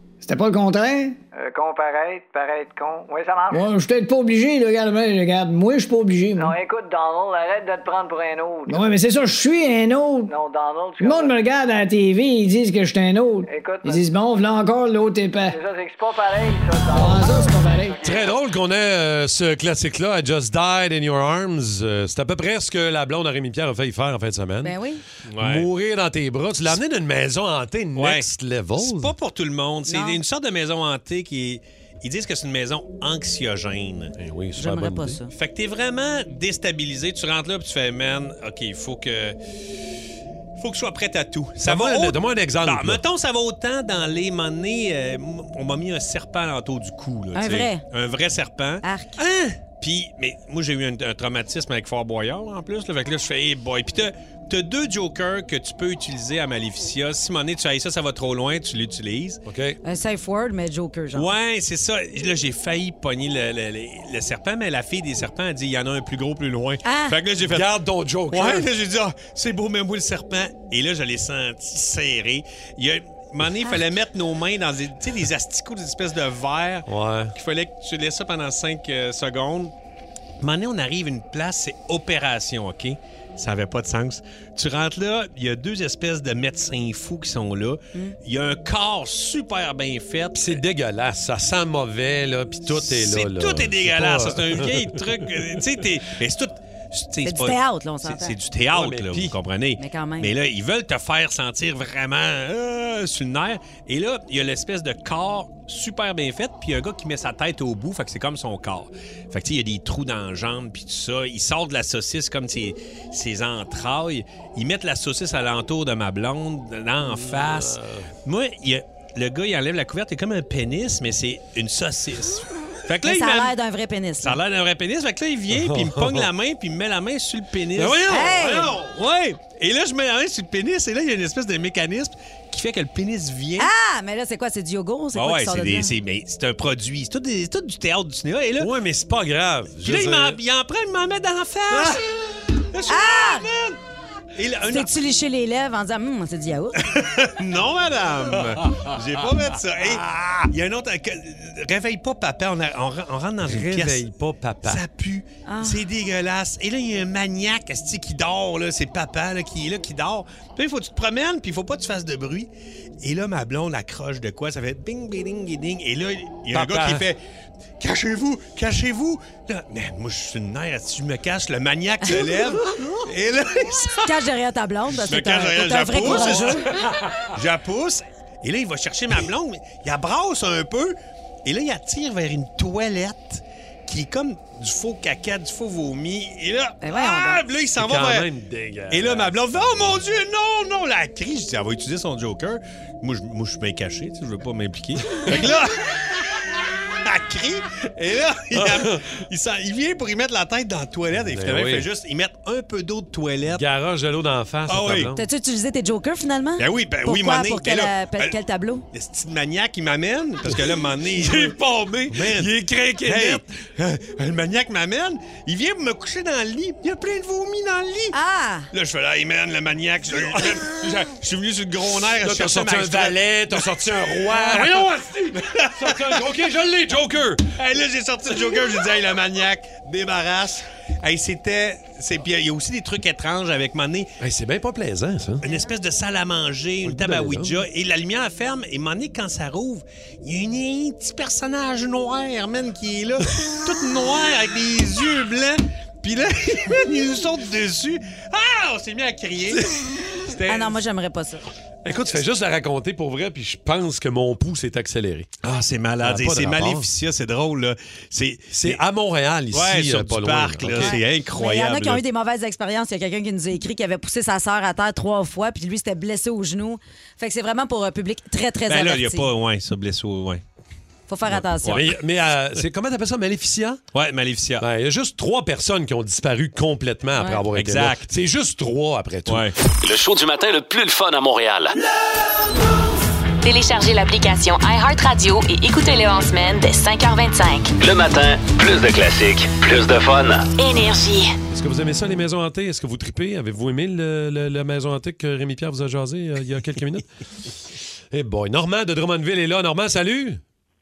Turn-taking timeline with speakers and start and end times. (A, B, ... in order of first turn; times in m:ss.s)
0:00.2-0:01.2 A
0:01.3-0:03.7 B
0:03.5-0:06.6 A
0:06.4-0:08.9 B
0:08.7-0:10.3 A
0:10.3-0:11.4 B
0:11.0-0:15.6 A
0:13.5-0:14.1 B
0:15.5-0:18.3 B
0:16.9-0:18.0 A
0:18.0-0:24.8 C
0:24.6-0:25.0 D
0:25.3-0:25.7 E
0:25.4-0:29.1 C
0:28.0-0:34.1 E
0:29.9-0:30.2 D
0:34.2-0:35.2 C
0:34.6-0:35.3 D
0:35.3-0:39.4 E
0:40.6-0:59.4 E
0:41.6-0:43.0 C
0:47.4-0:47.8 D
0:48.8-0:49.2 D
0:59.4-0:59.8 C
0:59.8-1:01.3 D
1:01.1-1:07.7 E
1:06.8-1:07.2 D
1:07.4-1:08.7 C
1:08.3-1:19.7 E
1:16.9-1:17.3 C
1:20.4-1:30.6 E
1:30.4-1:35.0 C
1:32.7-2:03.6 E
1:37.2-1:38.4 D
1:38.7-1:39.4 C
1:39.8-1:40.3 D
1:57.1-1:58.1 C
2:03.0-2:04.4 D
2:04.2-2:13.7 E
2:05.5-2:06.3 C
2:07.8-2:08.5 C
2:08.1-2:08.7 D
2:13.6-2:15.9 D
2:15.1-2:18.7 E
2:18.6-2:20.4 C
2:19.8-2:22.0 E
2:21.7-2:22.0 C
2:22.6-2:23.8 E
2:22.9-2:23.4 D
2:24.4-2:25.0 E
2:24.7-2:26.9 D
2:26.8-2:34.0 E
2:33.4-2:34.8 C
2:34.6-2:47.2 E
2:35.4-2:35.8 D
2:46.5-2:47.1 C
2:47.8-2:54.2 E
2:52.0-2:52.3 D
2:54.0-2:56.7 D
2:55.0-2:56.7 E
2:57.3-3:08.3 E
3:06.8-3:07.4 D
3:07.7-3:09.4 C
3:08.9-3:23.6 E
3:18.5-3:19.1 C
3:21.3-3:21.9 C
3:23.5-3:25.3 C
3:24.7-3:25.1 E
3:25.1-3:28.8 D
3:26.6-3:28.4 E
3:28.9-3:38.1 E
3:30.5-3:33.4 C
3:38.1-3:38.7 D
3:38.7-3:44.9 E
3:40.1-3:40.7 C
3:42.2-3:47.5 C
3:45.4-3:46.3 E
3:47.6-3:54.1 E
3:54.2-3:55.4 C
3:55.4-4:10.8 E
3:56.8-3:57.6 C
4:10.5-4:11.4 D
4:11.8-4:15.4 C
4:15.4-4:18.8 E
4:16.0-4:16.9 C
4:18.5-4:21.0 C
4:19.5-4:22.0 E
4:20.7-4:29.3 D
4:28.7-4:30.4 E
4:31.1-4:31.9 D
4:31.3-4:33.8 C
4:31.6-4:32.0 E
4:33.9-4:34.6 E
4:34.6-4:39.5 C
4:37.6-4:38.1 E
4:39.3-4:39.5 E
4:39.8-4:41.8 F
4:43.4-4:47.7 G
4:47.8-4:50.5 F
4:50.6-4:51.4 G
4:51.5-4:57.1 C
4:58.1-5:00.4 C